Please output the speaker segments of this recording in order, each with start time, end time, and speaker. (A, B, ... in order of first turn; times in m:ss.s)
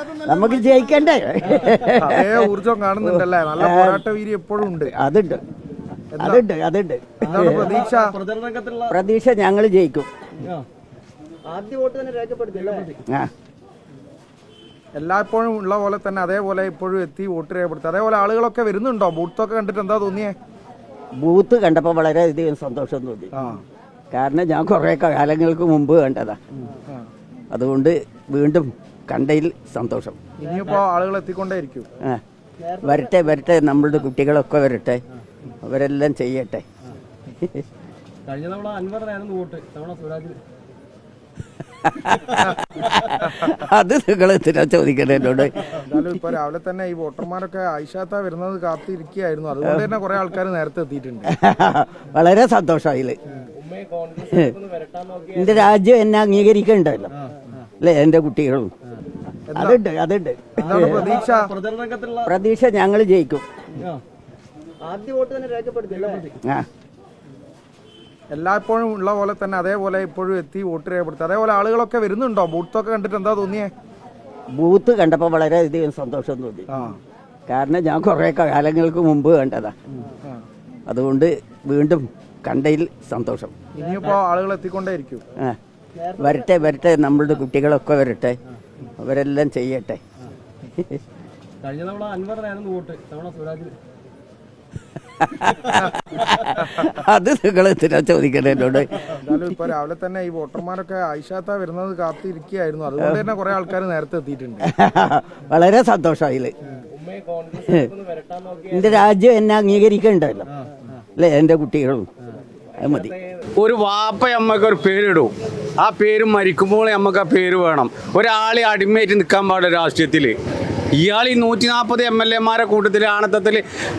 0:00.2-0:02.4 A
0:02.0-0:04.9 B
0:03.0-0:04.0 A
0:04.9-0:05.4 A
0:06.1-0:06.4 B
0:06.2-0:07.8 A
0:07.2-0:08.2 B
0:08.3-0:08.9 C
0:08.9-0:10.1 A
0:11.5-0:12.9 C
0:15.0-0:20.4 B
0:21.2-0:23.3 A
0:23.3-0:23.6 B
0:24.1-0:26.4 A
0:27.5-0:30.2 A
0:30.4-0:31.9 B
0:32.8-0:35.0 A
0:35.6-0:36.6 A
0:38.3-0:40.4 C
0:41.8-0:45.6 A
0:45.8-0:51.3 B
0:51.3-0:53.2 A
0:53.5-0:55.3 C
0:54.2-0:54.6 A
0:55.3-0:57.1 A
0:57.8-0:58.7 A
0:59.5-0:59.8 B
0:59.6-1:01.1 A
1:00.6-1:01.6 B
1:01.6-1:02.2 C
1:02.2-1:03.5 A
1:04.9-1:06.3 C
1:08.3-1:13.7 B
1:14.6-1:16.7 A
1:16.7-1:17.0 B
1:17.5-1:19.8 A
1:20.9-1:23.5 A
1:23.8-1:25.2 B
1:26.2-1:28.4 A
1:29.0-1:30.0 A
1:31.6-1:33.8 C
1:35.2-1:39.0 A
1:39.2-1:44.7 B
1:44.6-1:46.5 A
1:46.9-1:48.7 C
1:47.6-1:47.9 A
1:48.7-1:50.5 A
1:51.2-1:52.1 A
1:52.8-1:53.2 A
1:53.6-2:00.4 D
2:01.0-2:03.6 D